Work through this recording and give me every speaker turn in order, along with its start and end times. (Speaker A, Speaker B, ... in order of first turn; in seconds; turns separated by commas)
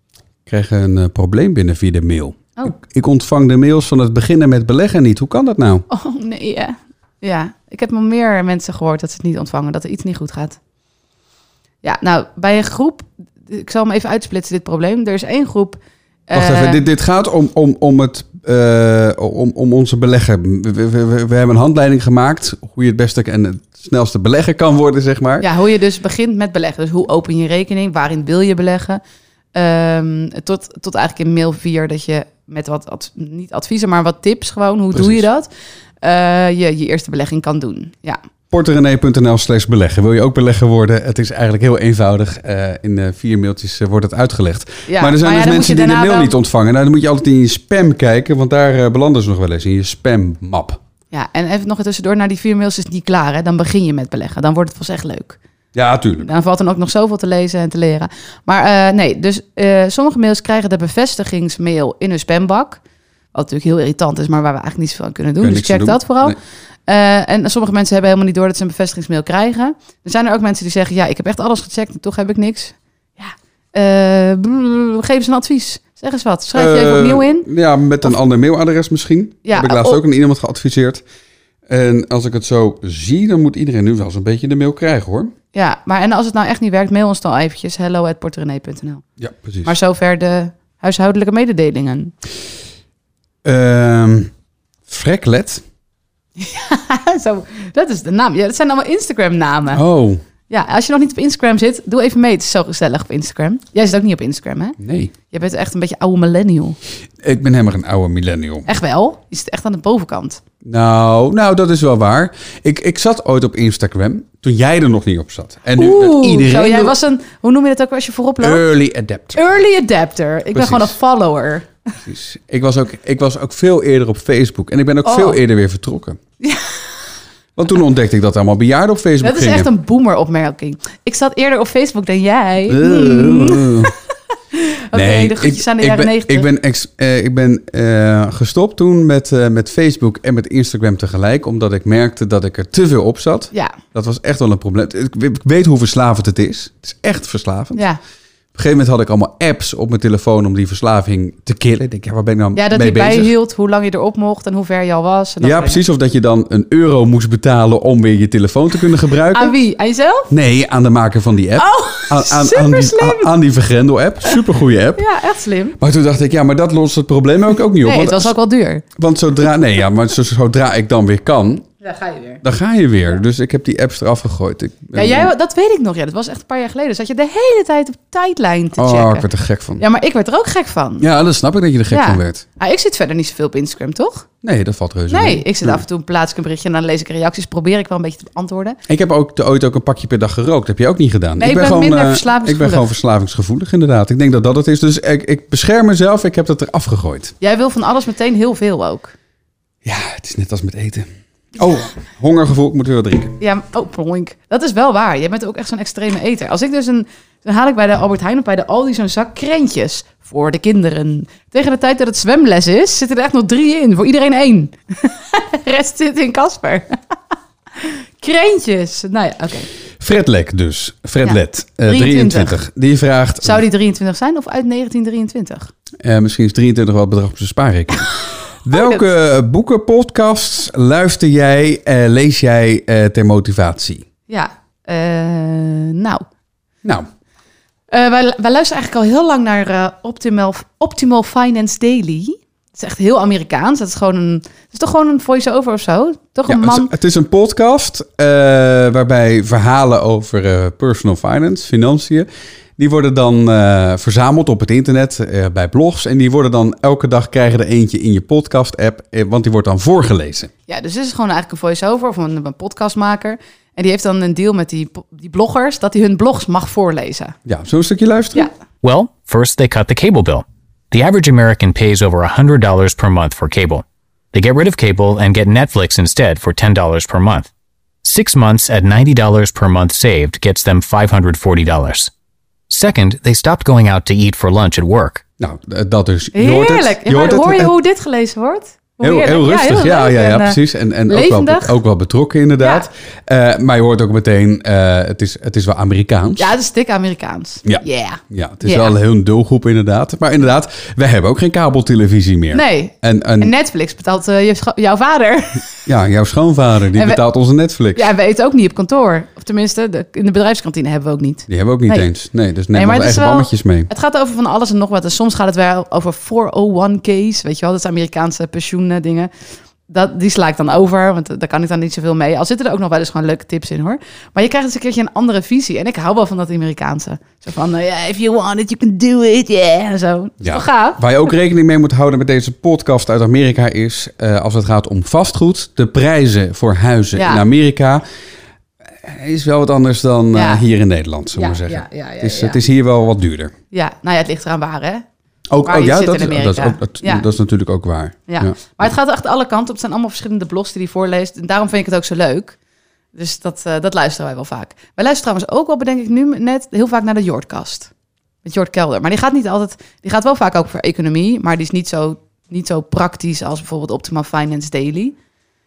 Speaker A: 0.5-5.9, Speaker B: 5.9-10.6, Speaker B: 11.8-16.8, Speaker A: 16.3-25.5, Speaker B: 25.4-29.0, Speaker B: 29.5-35.5, Speaker A: 34.9-35.2, Speaker B: 36.0-38.2, Speaker A: 38.5-50.8, Speaker B: 44.9-46.3, Speaker B: 51.1-55.4, Speaker A: 55.7-56.3, Speaker B: 56.2-62.8, Speaker B: 63.3-77.5, Speaker A: 65.4-66.4, Speaker A: 76.5-81.0, Speaker B: 79.5-80.0, Speaker A: 81.7-85.3, Speaker B: 85.5-89.0, Speaker A: 89.2-89.7, Speaker B: 89.7-92.1, Speaker A: 93.4-94.3, Speaker A: 94.9-95.6, Speaker B: 96.4-99.8, Speaker A: 99.7-100.2, Speaker B: 100.5-104.8, Speaker A: 104.8-105.1, Speaker B: 105.3-106.8, Speaker A: 107.2-108.7, Speaker B: 108.7-110.4, Speaker A: 110.6-117.0, Speaker B: 115.8-118.6, Speaker A: 118.4-119.5, Speaker B: 119.3-121.7, Speaker A: 120.5-121.0, Speaker A: 122.0-126.2, Speaker B: 125.0-125.4, Speaker B: 126.4-126.8, Speaker A: 127.6-129.7, Speaker B: 129.2-133.9, Speaker A: 132.7-133.9, Speaker B: 134.5-136.5, Speaker A: 134.9-147.8, Speaker B: 143.5-143.8, Speaker B: 147.8-148.0, Speaker A: 148.6-153.3, Speaker B: 152.6-155.8, Speaker A: 155.4-159.6, Speaker B: 159.3-160.3, Speaker A: 160.3-165.0, Speaker B: 161.6-163.3, Speaker B: 165.0-165.8, Speaker A: 165.8-168.3, Speaker B: 167.8-168.8, Speaker A: 169.0-171.7, Speaker B: 171.8-172.4, Speaker A: 172.4-175.3, Speaker B: 174.9-179.2, Speaker A: 178.8-179.8, Speaker B: 179.8-181.1, Speaker A: 181.0-182.4, Speaker B: 181.9-184.3, Speaker A: 184.4-185.8, Speaker B: 185.1-188.8, Speaker A: 188.9-197.3, Speaker B: 191.4-192.9, Speaker B: 197.4-199.1, Speaker A: 199.8-203.4, Speaker B: 203.4-216.9, Speaker B: 217.8-219.7, Speaker A: 220.0-223.6, Speaker B: 221.2-222.6, Speaker B: 223.4-225.7, Speaker A: 226.0-234.1, Speaker B: 228.7-229.0, Speaker B: 234.3-236.2, Speaker B: 237.9-246.9, Speaker A: 246.5-260.5, Speaker B: 260.7-267.4, Speaker A: 267.5-268.5, Speaker C: 268.8-277.5, Speaker C: 278.0-282.1, Speaker C: 282.7-285.2, Speaker A: 285.4-287.8, Speaker B: 286.3-291.8, Speaker A: 289.0-296.5, Speaker B: 292.6-292.9, Speaker B: 296.4-298.9, Speaker A: 297.6-303.5, Speaker B: 302.5-305.7, Speaker A: 305.9-308.1, Speaker B: 306.9-307.2, Speaker B: 307.9-312.1, Speaker A: 311.5-313.9, Speaker B: 312.7-319.3, Speaker B: 319.9-331.0, Speaker A: 330.4-338.0, Speaker B: 337.1-337.4, Speaker A: 338.9-343.5, Speaker B: 340.3-340.6, Speaker B: 341.4-342.6, Speaker B: 343.7-345.1, Speaker A: 345.5-348.5, Speaker B: 345.6-347.3, Speaker B: 348.3-352.6, Speaker B: 353.1-357.9, Speaker B: 358.4-365.2